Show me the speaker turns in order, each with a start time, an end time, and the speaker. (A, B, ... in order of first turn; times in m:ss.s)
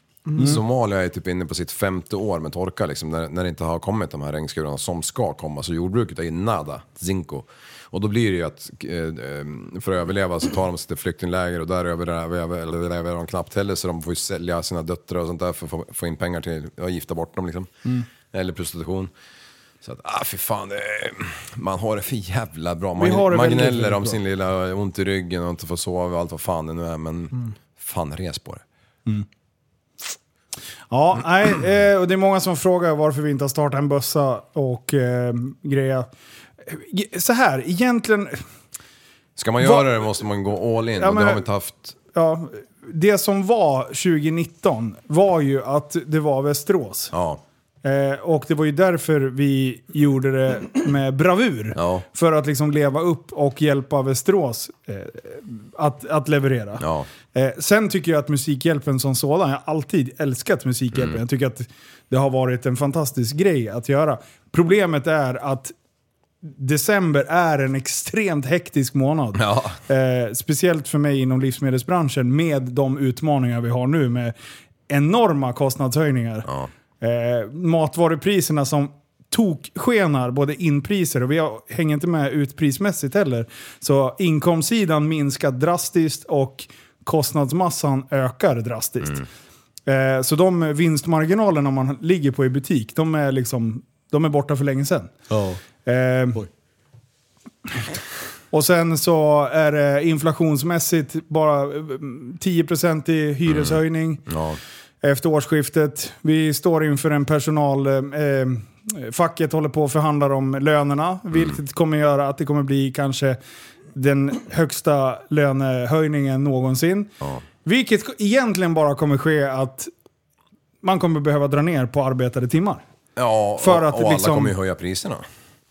0:00.4-0:17.7 A
0:18.3-0:19.1 A
0:19.8-0:28.6 A
0:23.0-0:24.2 B
0:30.9-0:36.1 B
0:36.6-0:38.4 B
0:39.4-0:42.0 A
0:39.6-0:40.1 B
0:41.0-0:41.4 B
0:42.1-0:47.1 B
0:47.1-0:47.4 A
0:47.8-1:05.7 B
0:51.7-0:52.0 A
0:56.8-0:57.1 A
1:00.9-1:01.2 A
1:06.4-1:14.3 B
1:09.3-1:09.8 A
1:14.9-1:16.5 B
1:17.0-1:29.2 B
1:29.9-1:35.1 B
1:35.3-1:35.6 A
1:35.8-1:36.5 B
1:38.5-1:44.3 B
1:43.4-1:44.6 A
1:45.0-1:53.4 B
1:53.9-1:57.1 B
1:57.6-1:59.9 B
2:00.8-2:02.8 B
2:03.2-2:05.2 A
2:03.6-2:04.5 B